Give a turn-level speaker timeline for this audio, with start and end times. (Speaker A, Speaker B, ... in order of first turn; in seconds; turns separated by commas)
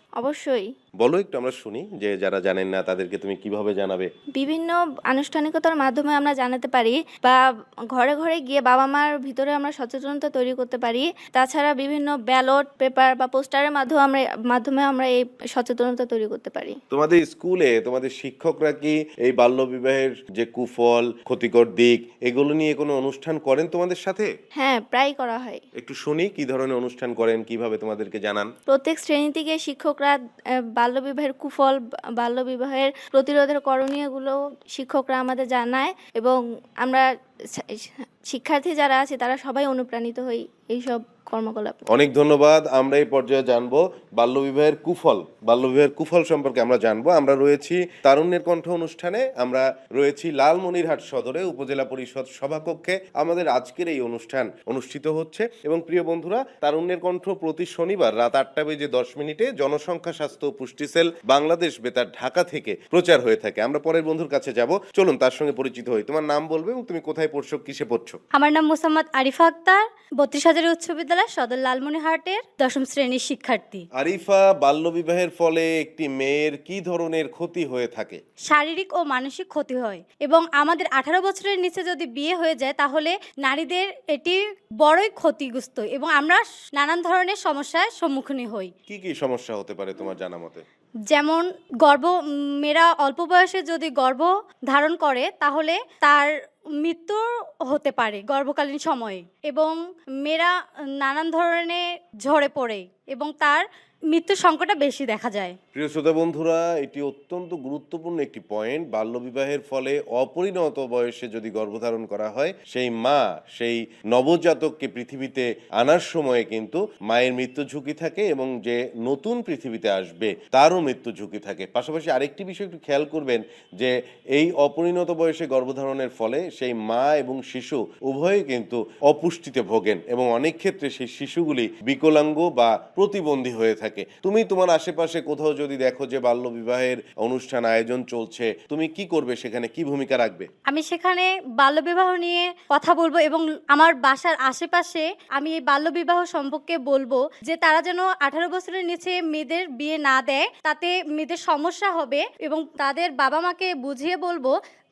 Speaker A: 0.1-0.7, Speaker B: 1.0-4.1, Speaker A: 4.3-16.8, Speaker B: 16.9-24.3, Speaker A: 24.5-25.6, Speaker B: 25.8-28.5, Speaker A: 28.7-41.8, Speaker B: 41.9-68.2, Speaker C: 68.3-73.8, Speaker B: 74.0-78.2, Speaker C: 78.5-88.7, Speaker B: 88.9-90.6, Speaker C: 91.1-105.6, Speaker B: 105.7-140.5, Speaker C: 140.7-154.5